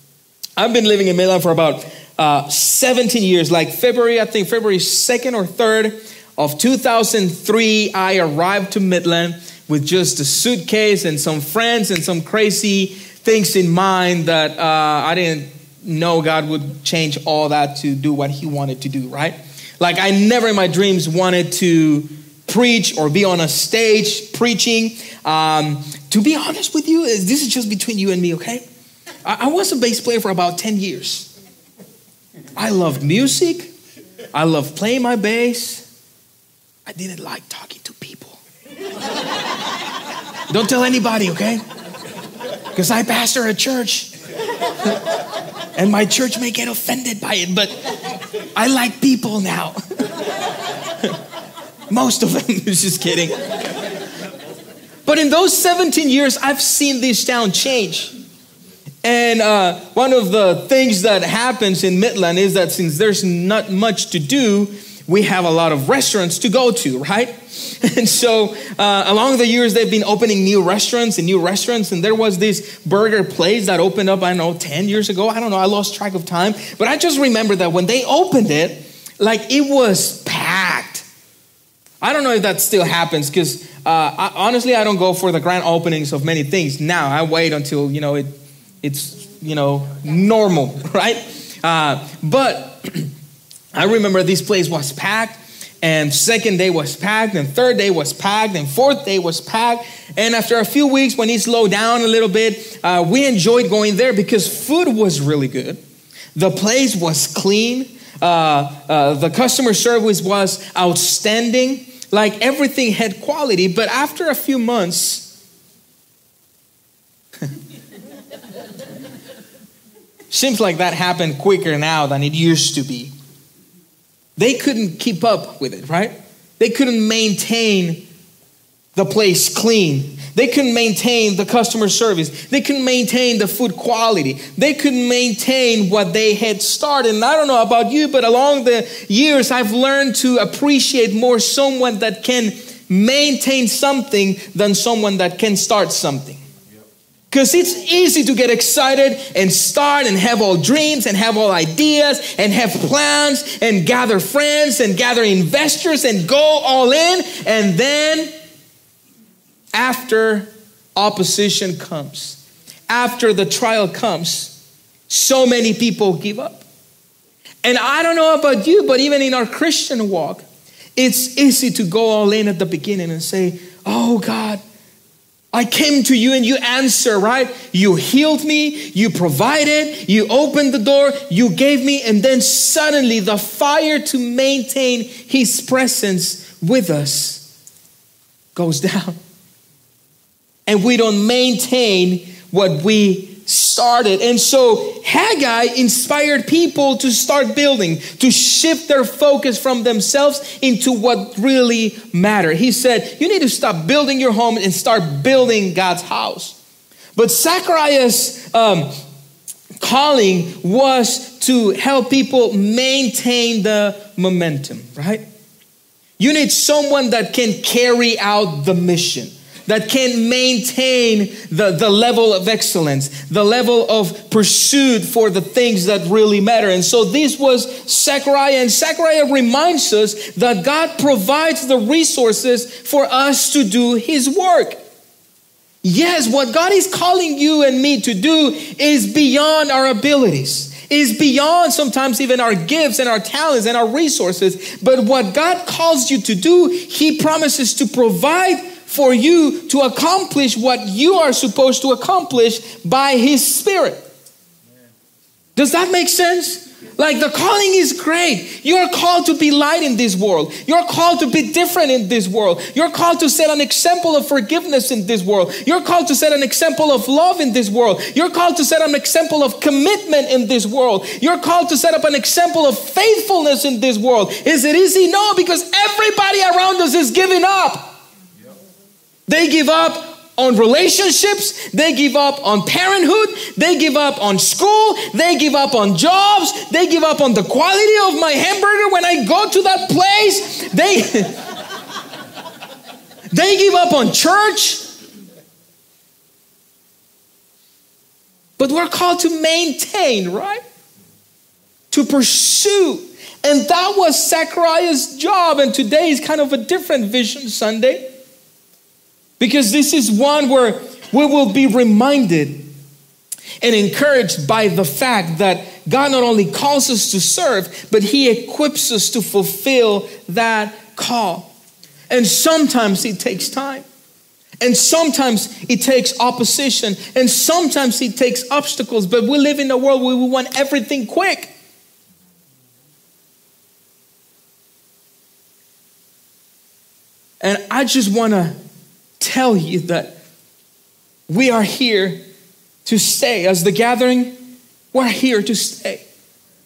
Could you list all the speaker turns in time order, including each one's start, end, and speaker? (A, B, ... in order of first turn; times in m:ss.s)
0:00.6-0:28.6 A
0:29.2-0:31.3 A
0:32.6-0:33.7 A
0:34.3-0:35.9 A
0:36.9-0:38.4 A
0:40.5-0:41.6 A
0:42.7-0:44.1 A
0:45.8-0:47.9 A
0:48.6-0:50.1 A
0:51.9-0:53.5 A
0:55.1-0:58.1 A
0:59.0-1:21.1 A
1:22.0-1:28.3 A
1:28.8-1:33.1 A
1:33.7-1:45.8 A
1:46.4-1:55.3 A
2:00.3-2:03.1 A
2:04.4-2:08.0 A
2:09.0-2:26.4 A
2:27.3-2:38.3 A
2:39.7-2:44.6 A
2:45.1-2:46.6 A
2:47.6-2:54.6 A
2:55.5-3:07.5 A
3:08.6-3:09.2 A
3:10.7-3:26.6 A
3:27.2-3:28.9 A
3:29.8-3:35.2 A
3:36.2-3:54.8 A
3:55.8-4:14.0 A
4:15.6-4:38.0 A
4:39.3-4:51.5 A
4:53.3-4:54.8 A
4:58.6-5:00.6 A
5:01.9-5:08.0 A
5:09.4-5:12.7 A
5:13.6-5:21.5 A
5:22.1-5:23.9 A
5:24.6-5:31.5 A
5:37.4-5:38.6 A
5:39.2-5:40.2 A
5:41.3-5:42.2 A
5:42.8-5:44.4 A
5:44.9-5:46.0 A